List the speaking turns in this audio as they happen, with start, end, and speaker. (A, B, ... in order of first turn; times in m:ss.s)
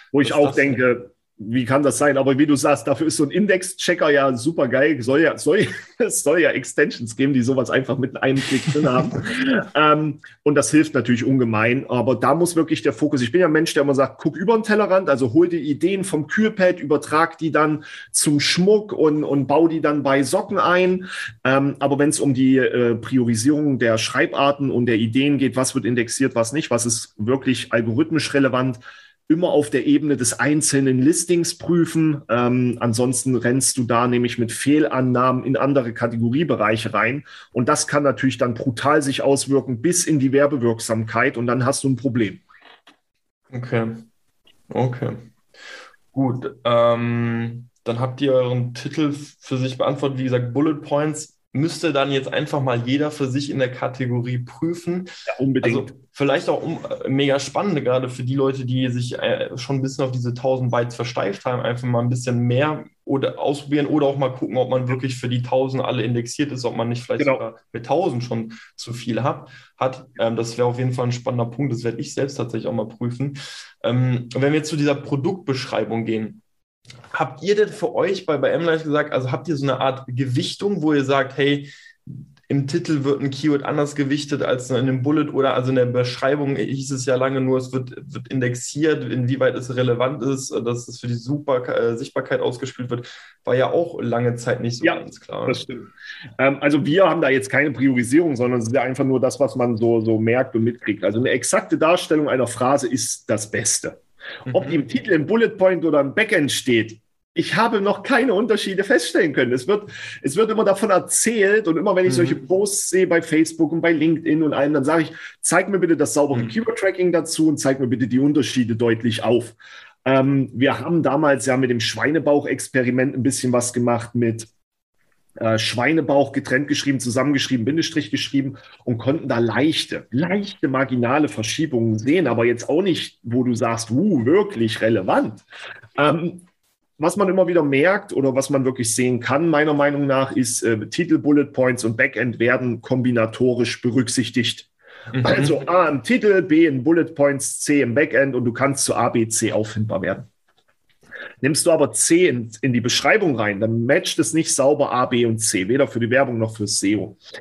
0:00.1-0:42.4 A
0:00.2-0:00.8 B
0:43.5-0:44.0 B
0:44.7-0:45.3 B
0:46.1-1:16.4 B
0:55.3-0:55.9 A
1:17.1-1:35.6 B
1:34.8-2:04.5 A
1:44.5-1:44.8 B
1:52.0-1:52.4 B
2:05.4-2:15.4 A
2:16.0-2:16.4 A
2:17.0-2:30.3 A
2:25.1-2:25.6 B
2:31.4-2:37.2 A